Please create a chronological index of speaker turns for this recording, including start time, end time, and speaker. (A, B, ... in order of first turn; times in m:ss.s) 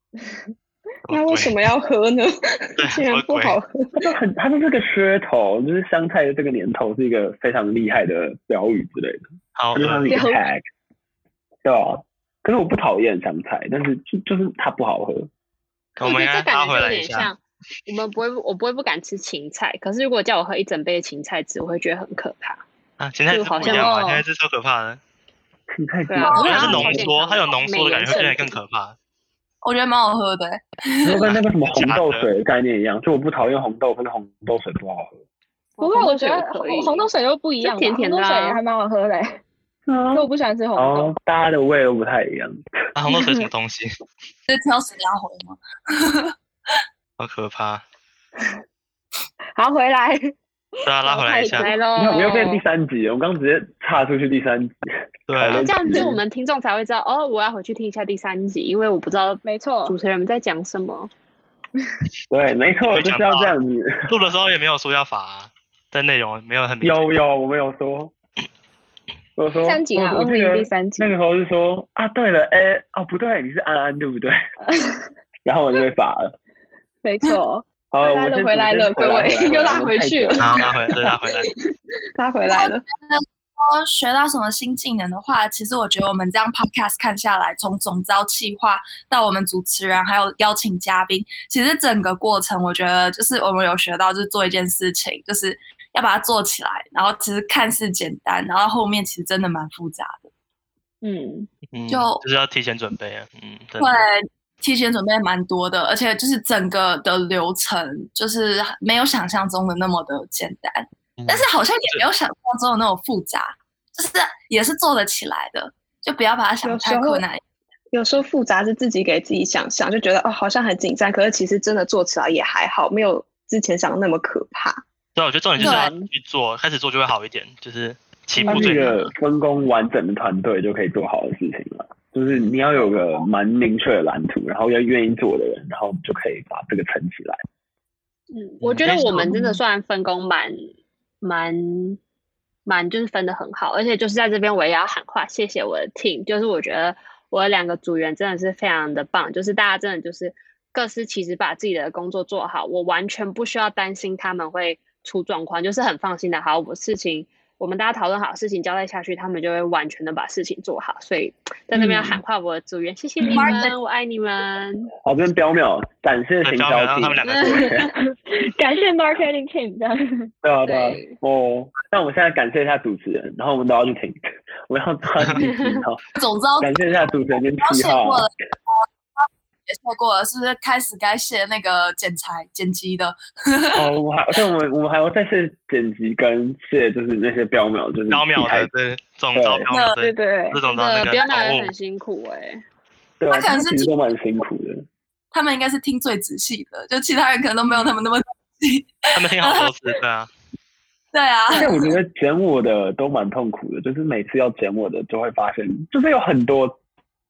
0:01.1-0:01.6 A
0:01.1-0:04.0 B
0:02.8-0:03.6 A
0:04.0-0:10.6 C
0:09.6-0:10.2 A
0:10.1-0:10.4 D
0:11.6-0:15.3 C
0:16.0-0:22.6 E
0:16.0-0:17.3 A
0:23.0-0:25.0 A
0:23.3-0:24.2 E
0:25.7-0:27.1 C
0:26.1-0:28.6 E
0:26.2-0:27.0 F
0:26.3-0:29.0 A
0:29.6-0:31.3 F
0:31.0-0:35.2 C
0:31.3-0:32.3 A
0:35.8-0:37.1 E
0:35.8-0:39.4 D
0:37.6-0:38.6 E
0:39.9-0:42.6 C
0:40.1-0:41.2 D
0:43.0-0:43.9 A
0:44.5-0:46.3 F
0:47.2-0:47.8 A
0:49.5-0:50.3 D
0:50.8-0:51.7 A
0:51.0-0:52.4 D
0:51.5-0:52.6 E
0:52.0-0:54.8 C
0:55.3-0:56.0 A
0:55.4-0:56.2 C
0:55.5-1:01.1 E
0:59.4-1:00.0 D
1:02.3-1:04.1 C
1:02.9-1:03.5 A
1:04.1-1:07.1 A
1:06.8-1:08.1 C
1:09.4-1:14.4 C
1:09.6-1:11.1 D
1:14.7-1:15.0 D
1:15.4-1:16.3 C
1:17.0-1:17.7 D
1:17.9-1:20.6 C
1:18.0-1:21.5 B
1:20.4-1:21.5 A
1:22.2-1:22.8 B
1:22.5-1:40.3 F
1:41.0-1:41.5 D
1:41.7-1:44.0 A
1:41.9-1:42.2 F
1:43.8-1:57.4 F
1:51.2-1:52.0 A
1:56.6-1:57.2 B
1:57.9-2:04.8 B
2:05.2-2:09.1 A
2:05.6-2:05.9 F
2:05.6-2:06.1 C
2:08.4-2:17.4 C
2:08.5-2:08.8 D
2:18.3-2:20.7 E
2:18.6-2:19.6 A
2:21.2-2:22.0 E
2:22.7-2:44.9 E
2:41.7-2:42.2 C
2:43.3-2:43.8 F
2:45.0-2:47.9 C
2:46.4-2:47.8 A
2:47.2-2:47.9 E
2:47.9-2:50.3 D
2:50.4-2:56.0 C
2:50.6-2:51.2 E
2:55.4-2:55.8 E
2:56.2-2:56.8 F
2:56.6-2:58.3 C
2:57.6-2:58.3 F
2:59.7-3:03.9 F
3:03.8-3:08.7 C
3:08.1-3:11.7 A
3:09.3-3:09.7 C
3:09.7-3:10.0 F
3:10.0-3:10.6 D
3:10.6-3:12.6 E
3:13.2-3:14.9 C
3:13.3-3:13.9 F
3:15.3-3:19.7 F
3:19.2-3:20.3 A
3:21.1-3:21.9 F
3:21.5-3:26.8 C